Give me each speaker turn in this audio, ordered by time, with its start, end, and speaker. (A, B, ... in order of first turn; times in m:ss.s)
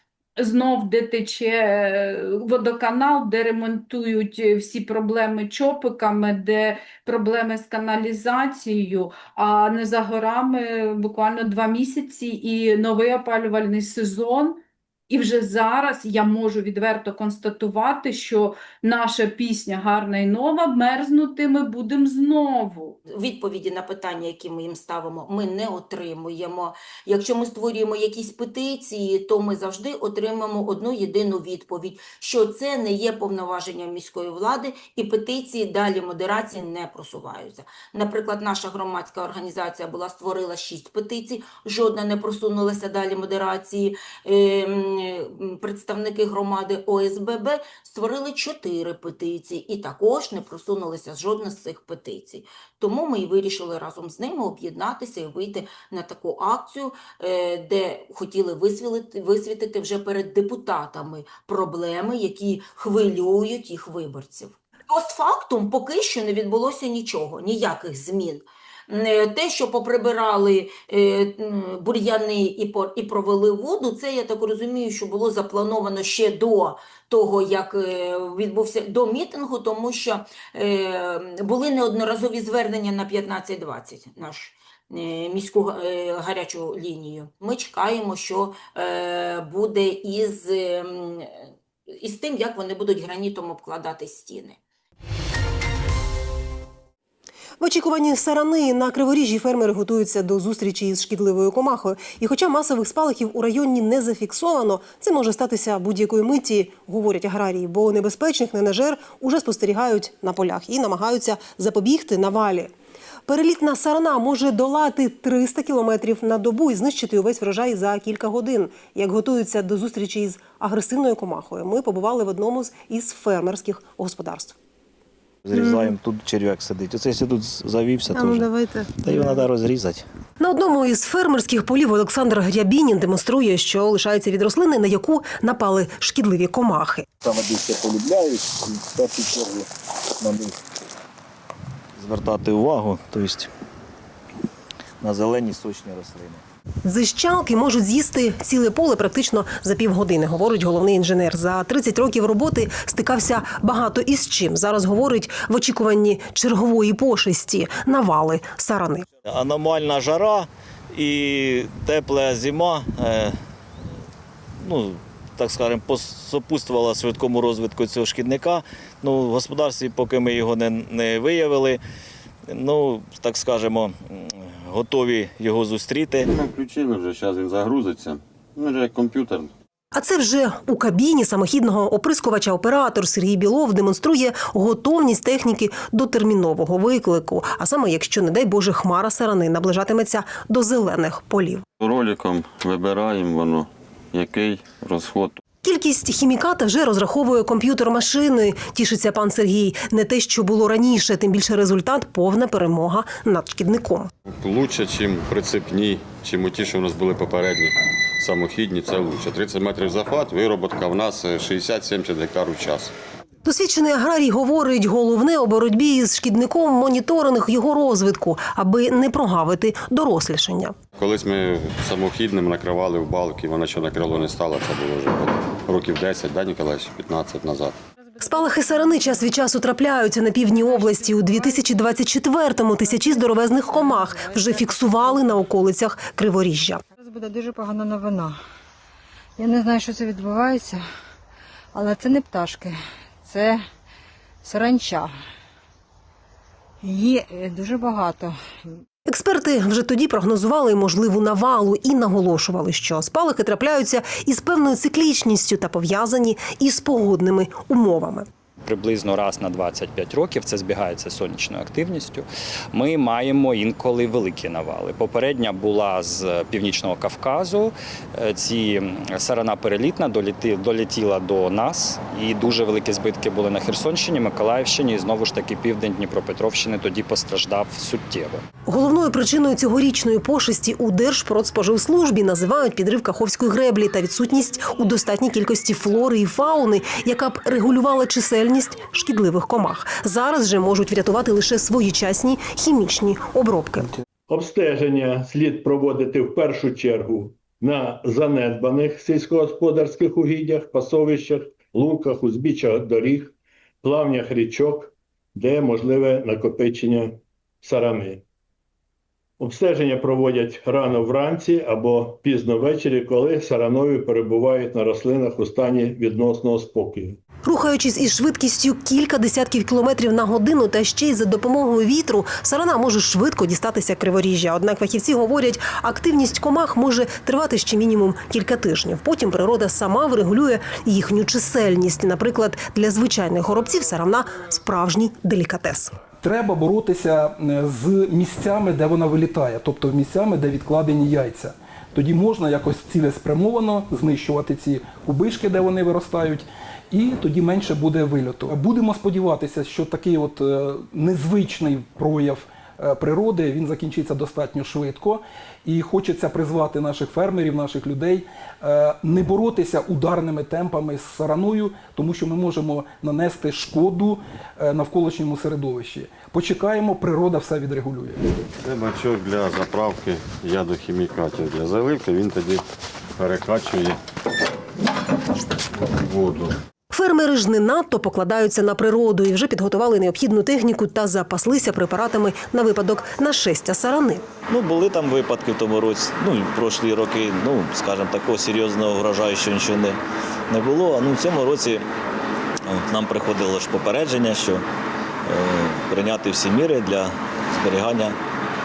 0:00.4-0:23.0 A
0:23.1-1:31.3 B
1:32.0-1:34.6 B
1:37.6-1:52.7 C
1:53.3-2:04.6 C
2:05.5-2:10.0 D
2:10.4-2:17.1 C
2:22.0-2:23.5 D
2:25.0-2:26.4 D
2:26.8-2:39.1 C
2:39.3-2:43.4 D
2:44.6-2:51.8 D
2:52.5-2:56.3 D
2:56.3-2:59.5 E
2:59.9-3:11.6 C
3:11.8-3:15.4 E
3:15.6-3:24.1 C
3:24.3-3:32.9 E
3:33.4-3:40.8 C
3:41.0-3:47.8 E
3:48.2-3:56.8 C
3:57.0-3:58.4 F
3:59.4-4:00.8 F
4:01.8-4:02.7 F
4:03.3-4:03.6 F
4:04.4-4:05.1 F
4:06.9-4:08.3 F
4:09.1-4:18.3 C
4:18.6-4:38.4 G
4:38.7-4:53.9 C
4:54.3-5:08.2 H
5:09.4-5:17.2 H
5:17.4-5:35.9 C
5:36.2-6:08.2 I
6:08.6-6:12.6 E
6:13.2-6:14.0 E
6:15.9-6:16.6 E
6:16.9-6:24.3 C
6:24.5-6:30.0 D
6:30.5-6:31.8 D
6:32.7-6:34.6 D
6:35.3-6:38.2 D